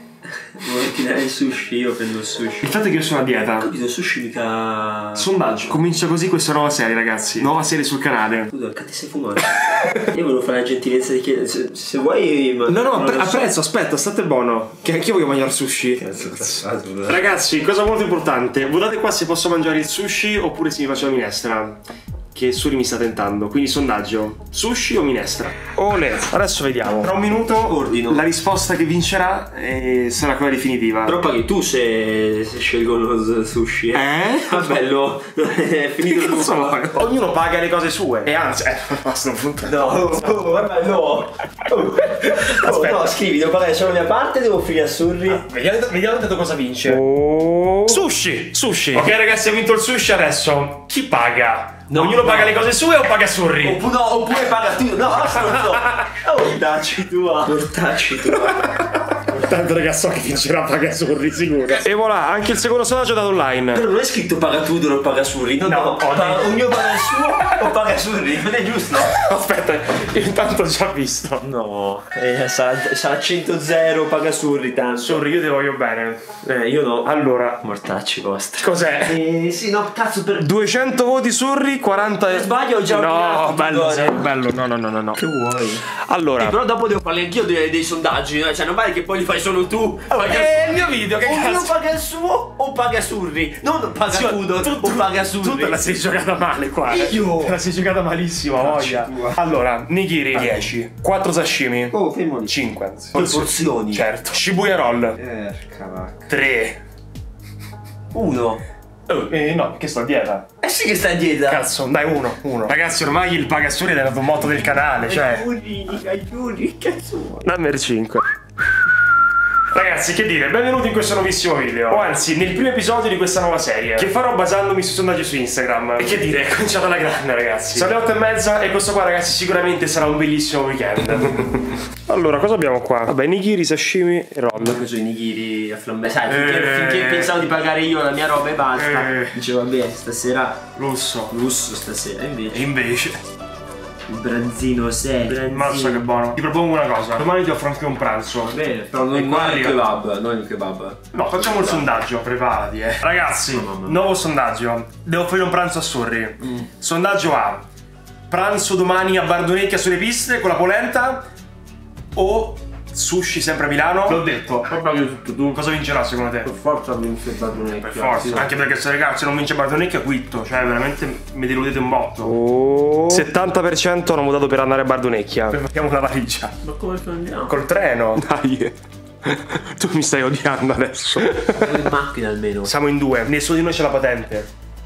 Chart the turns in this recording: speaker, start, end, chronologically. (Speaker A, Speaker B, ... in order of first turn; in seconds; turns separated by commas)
Speaker A: 0.4-2.7, Speaker B: 2.6-3.7, Speaker A: 3.6-5.3, Speaker B: 5.2-8.5, Speaker A: 8.5-13.5, Speaker B: 12.7-16.5, Speaker A: 16.0-17.3, Speaker B: 17.1-21.8, Speaker B: 22.3-31.2, Speaker A: 27.3-28.3, Speaker A: 31.0-37.0, Speaker B: 33.9-34.8, Speaker B: 36.0-40.7, Speaker A: 39.6-45.5, Speaker B: 42.2-43.1, Speaker B: 45.3-53.8, Speaker A: 51.9-52.6, Speaker A: 53.6-59.0, Speaker B: 55.3-56.2, Speaker B: 58.6-63.8, Speaker A: 63.7-69.1, Speaker B: 65.6-66.6, Speaker B: 69.0-71.5, Speaker A: 71.4-75.2, Speaker B: 75.0-76.4, Speaker A: 76.4-77.1, Speaker B: 77.0-77.6, Speaker A: 77.6-80.5, Speaker B: 78.6-79.2, Speaker B: 80.4-85.2, Speaker A: 82.1-84.3, Speaker A: 85.2-96.1, Speaker B: 85.9-86.6, Speaker B: 90.2-91.7, Speaker B: 94.1-102.0, Speaker A: 96.8-97.6, Speaker A: 98.5-99.4, Speaker A: 100.3-100.7, Speaker A: 101.9-102.5, Speaker B: 102.5-105.2, Speaker A: 103.2-104.1, Speaker A: 105.2-106.3, Speaker B: 106.3-106.8, Speaker A: 108.1-108.6, Speaker B: 109.1-110.5, Speaker A: 110.6-111.6, Speaker B: 111.5-115.5, Speaker A: 115.0-117.5, Speaker B: 117.4-118.3, Speaker B: 119.7-134.8, Speaker A: 134.6-140.6, Speaker B: 136.3-137.3, Speaker B: 138.8-139.3, Speaker B: 140.8-141.3, Speaker A: 141.3-142.7, Speaker B: 142.5-143.2, Speaker A: 144.1-146.1, Speaker B: 145.3-148.6, Speaker A: 148.4-152.0, Speaker B: 149.1-149.8, Speaker B: 151.1-157.6, Speaker A: 153.4-154.0, Speaker A: 156.4-156.7, Speaker B: 158.3-161.2, Speaker B: 162.2-164.2, Speaker A: 164.1-165.3, Speaker B: 165.2-166.5, Speaker A: 166.4-168.5, Speaker B: 167.8-172.3, Speaker A: 172.2-173.3, Speaker B: 173.1-176.6, Speaker A: 176.6-177.6, Speaker B: 177.5-181.8, Speaker A: 181.5-182.7, Speaker B: 182.6-184.5